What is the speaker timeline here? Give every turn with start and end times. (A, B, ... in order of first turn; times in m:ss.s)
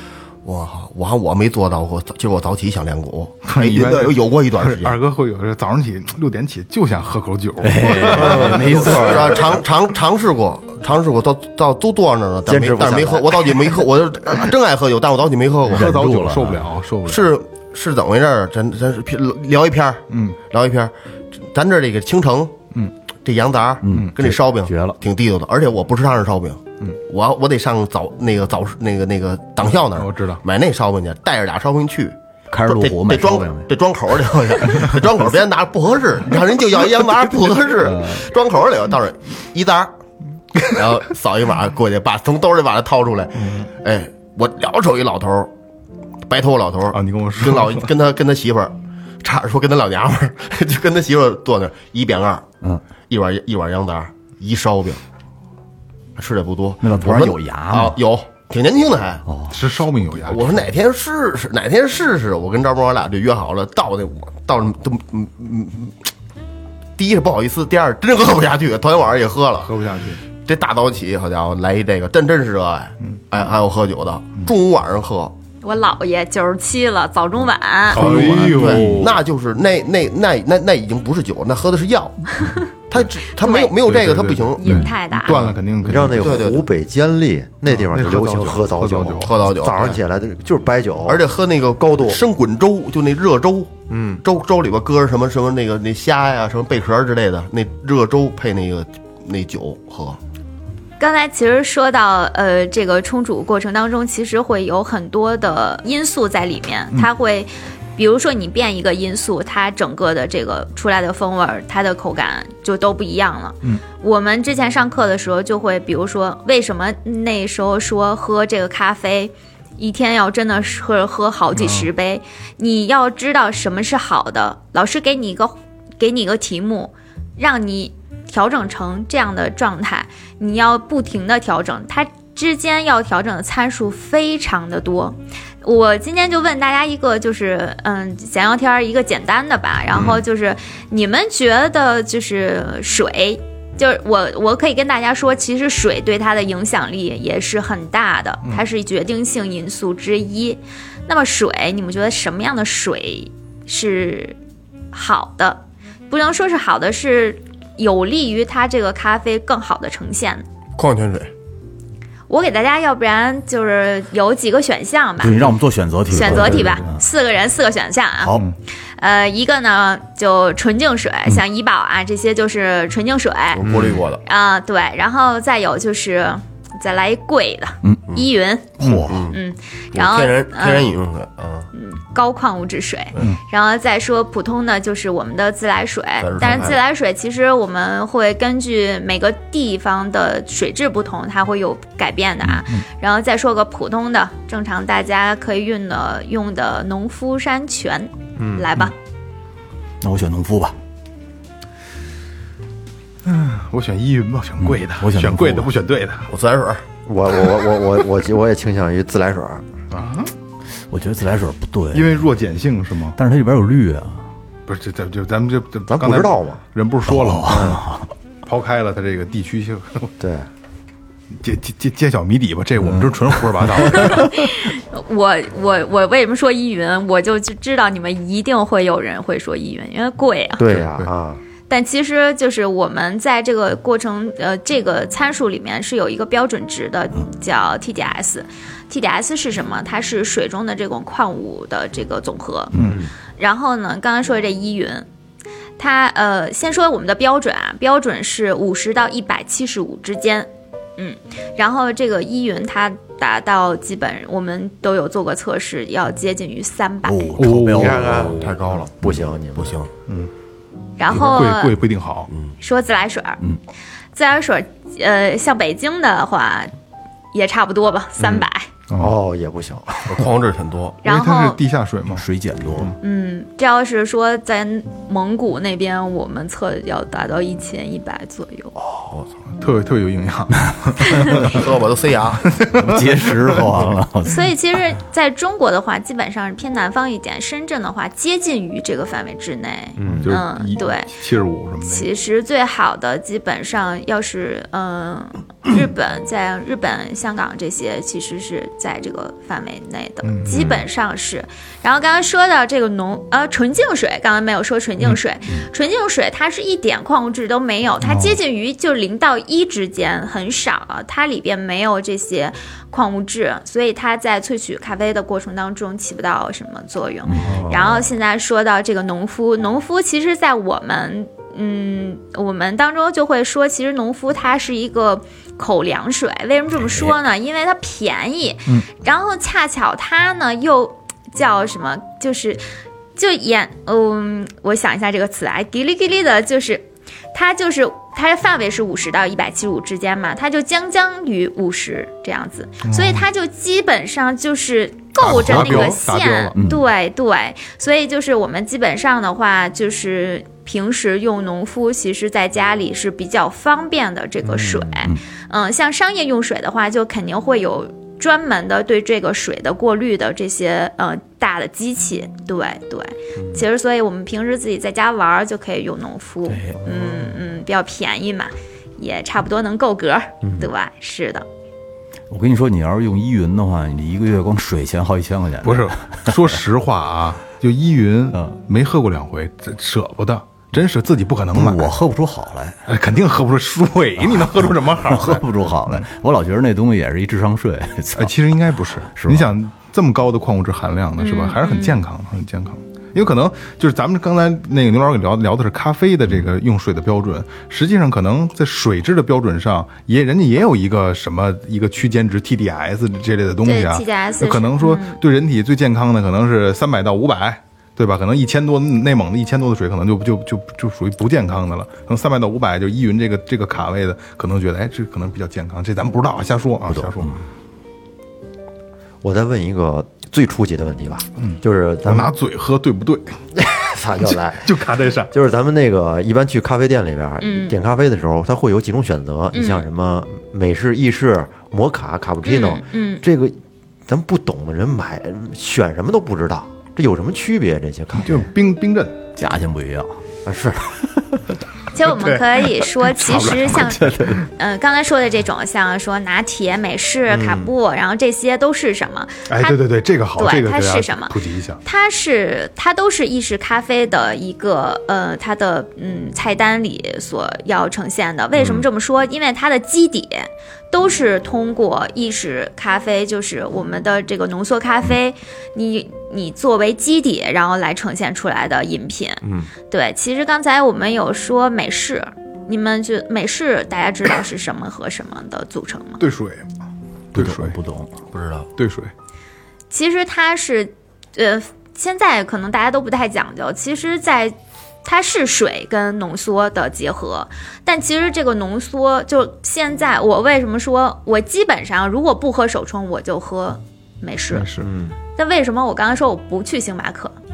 0:00.4-0:05.0 A
0:03.4-0:09.1 B
0:07.6-0:09.6 C
0:08.1-0:09.2 D
0:08.2-0:16.0 A
0:12.4-0:13.7 D
0:15.7-0:17.3 B
0:15.7-0:16.6 C
0:17.0-0:22.6 A
0:20.1-0:20.4 B
0:23.2-0:39.9 A
0:23.8-0:25.0 C
0:29.9-0:30.4 B
0:32.5-0:33.7 C
0:37.8-0:38.2 C
0:40.6-0:45.5 A
0:43.4-0:43.7 B
0:46.2-0:52.4 A
0:46.9-0:47.9 B
0:53.1-0:55.0 A
0:56.2-0:59.2 A
0:56.8-0:58.0 C
0:59.3-0:59.5 C
0:59.5-1:00.6 B
1:00.2-1:06.1 A
1:07.0-1:09.7 A
1:09.6-1:10.2 B
1:10.4-1:15.3 A
1:15.6-1:18.5 E
1:17.9-1:19.2 B
1:17.9-1:26.6 A
1:23.4-1:23.8 E
1:23.8-1:26.5 B
1:24.6-1:25.4 E
1:25.8-1:31.2 D
1:27.7-1:29.4 B
1:29.2-1:30.0 A
1:31.0-1:40.2 A
1:31.8-1:32.2 D
1:33.9-1:34.2 D
1:41.0-2:34.4 E
2:01.5-2:01.9 B
2:19.9-2:20.2 D
2:34.9-2:40.4 E
2:40.8-2:41.3 A
2:42.3-2:45.5 E
2:45.2-2:47.0 C
2:46.1-2:48.4 E
2:49.0-2:53.7 E
2:53.5-2:54.2 A
2:54.2-3:00.9 E
2:58.8-2:59.3 C
2:59.0-2:59.4 A
2:59.9-3:01.7 A
3:01.7-3:18.9 E
3:06.2-3:06.8 A
3:18.4-3:18.7 D
3:20.0-3:20.8 C
3:23.2-3:26.3 B
3:24.6-3:25.7 C
3:26.3-3:26.8 A
3:27.0-3:29.6 D
3:29.9-3:30.3 B
3:30.9-3:32.2 C
3:31.9-3:33.2 B
3:33.1-3:34.2 C
3:34.7-3:37.8 B
3:35.9-3:36.6 D
3:37.1-3:38.1 C
3:37.5-3:37.8 D
3:38.4-3:40.1 B
3:40.2-3:40.5 D
3:41.4-3:44.5 B
3:43.9-3:50.8 E
3:50.6-3:51.4 D
3:50.7-3:51.1 B
3:51.7-4:02.7 E
4:02.7-4:03.0 B
4:02.8-4:03.1 D
4:03.4-4:05.0 E
4:05.8-4:17.4 E
4:17.0-4:18.2 C
4:17.4-4:18.5 B
4:17.7-4:19.8 D
4:18.1-4:18.9 A
4:19.5-4:19.9 A
4:21.0-4:21.8 E
4:21.1-4:22.3 B
4:22.6-4:23.4 E
4:24.1-4:26.7 E
4:27.3-4:28.7 E
4:28.9-4:29.2 B
4:29.0-4:30.2 D
4:30.1-4:31.0 A
4:31.0-4:31.6 E
4:31.0-4:32.2 B
4:32.1-4:33.0 C
4:33.0-4:38.7 E
4:38.8-4:39.3 D
4:39.6-4:41.7 B
4:41.3-4:42.4 A
4:42.4-4:43.9 B
4:42.8-4:44.5 C
4:44.2-4:51.1 E
4:50.0-4:50.4 D
4:50.2-4:52.1 B
4:51.8-5:32.6 E
5:00.2-5:00.6 B
5:00.5-5:00.8 D
5:08.0-5:08.4 B
5:17.3-5:17.6 C
5:17.4-5:18.0 D
5:33.2-6:11.4 E
5:42.8-5:43.2 B
5:45.2-5:46.6 B
5:45.5-5:45.8 C
5:46.6-5:46.8 C
5:54.4-5:55.0 D
6:03.4-6:03.6 D
6:06.5-6:06.8 C
6:10.4-6:10.7 D
6:12.3-6:16.3 C
6:15.6-6:22.0 B
6:21.5-6:22.8 C
6:22.9-6:26.0 B
6:24.2-6:28.4 C
6:28.2-6:57.4 B
6:29.1-6:29.5 C
6:31.2-6:32.0 E
6:43.6-6:45.2 E
6:56.8-6:57.3 C
6:59.2-7:02.3 D
7:01.4-7:03.4 B
7:03.6-7:04.8 D
7:04.6-7:05.3 B
7:05.3-7:18.5 D
7:07.4-7:07.8 E
7:09.5-7:09.8 E
7:12.4-7:13.2 E
7:18.2-7:19.2 B
7:19.4-7:20.2 C
7:20.4-7:21.0 D
7:21.9-7:29.8 E
7:22.0-7:22.7 B
7:23.2-7:23.9 B
7:23.2-7:24.4 C
7:27.3-7:27.7 D
7:29.5-7:31.8 B
7:30.4-7:56.2 E
7:38.6-7:38.8 D
7:49.4-7:49.7 D
7:56.2-7:56.6 B
7:57.3-7:57.8 B
7:57.3-7:58.1 C
7:58.3-7:58.7 A
7:58.8-7:59.1 B
7:59.9-8:14.7 E
8:14.5-8:14.9 B
8:14.8-8:15.1 D
8:15.4-8:17.4 E